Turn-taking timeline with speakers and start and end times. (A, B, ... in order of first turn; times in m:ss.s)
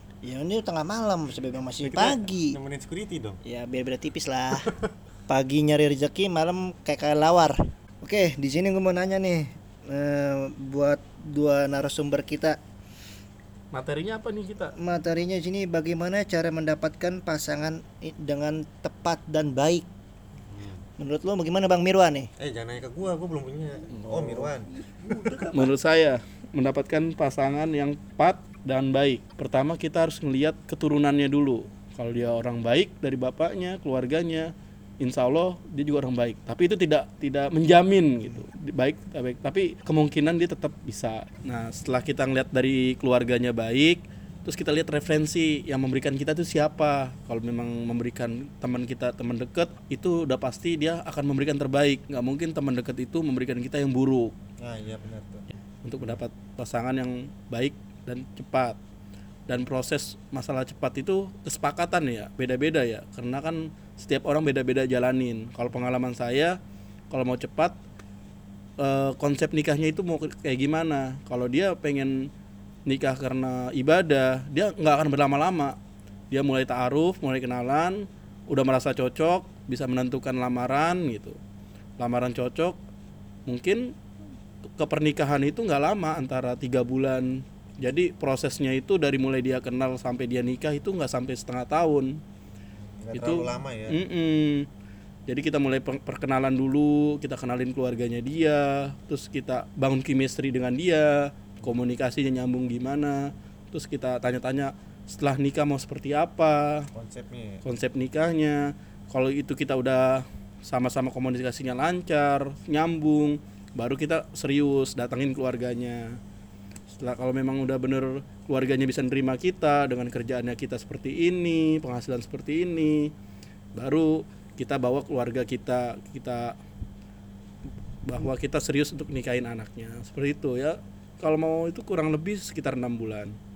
0:00.2-0:02.6 A
0:01.8-0:03.4 B
0:03.4-0:04.7 A
0:05.3-0:12.6 A
0:13.7-0:14.7 C
0:14.8-0:19.9 A
0:20.4-0:20.8 B
0:21.0-0:22.3 A
0:22.4-0:24.7 B
0:23.9-0:24.5 C
0:24.8-0:25.7 A
0:25.5-0:54.4 C
0:54.6-0:55.4 B
0:55.8-0:58.8 C
0:59.5-1:06.6 C
1:07.1-1:07.8 C
1:08.8-1:12.1 C
1:12.9-1:15.8 C
1:16.3-1:21.4 C
1:22.0-1:22.8 C
1:23.5-1:23.9 C
1:24.8-1:32.2 C
1:32.8-1:34.0 B
1:33.1-1:34.7 C
1:35.3-1:46.9 C
1:46.9-1:47.6 B
1:47.6-1:56.2 C
1:56.9-2:03.1 C
2:03.8-2:06.6 C
2:08.0-2:13.3 C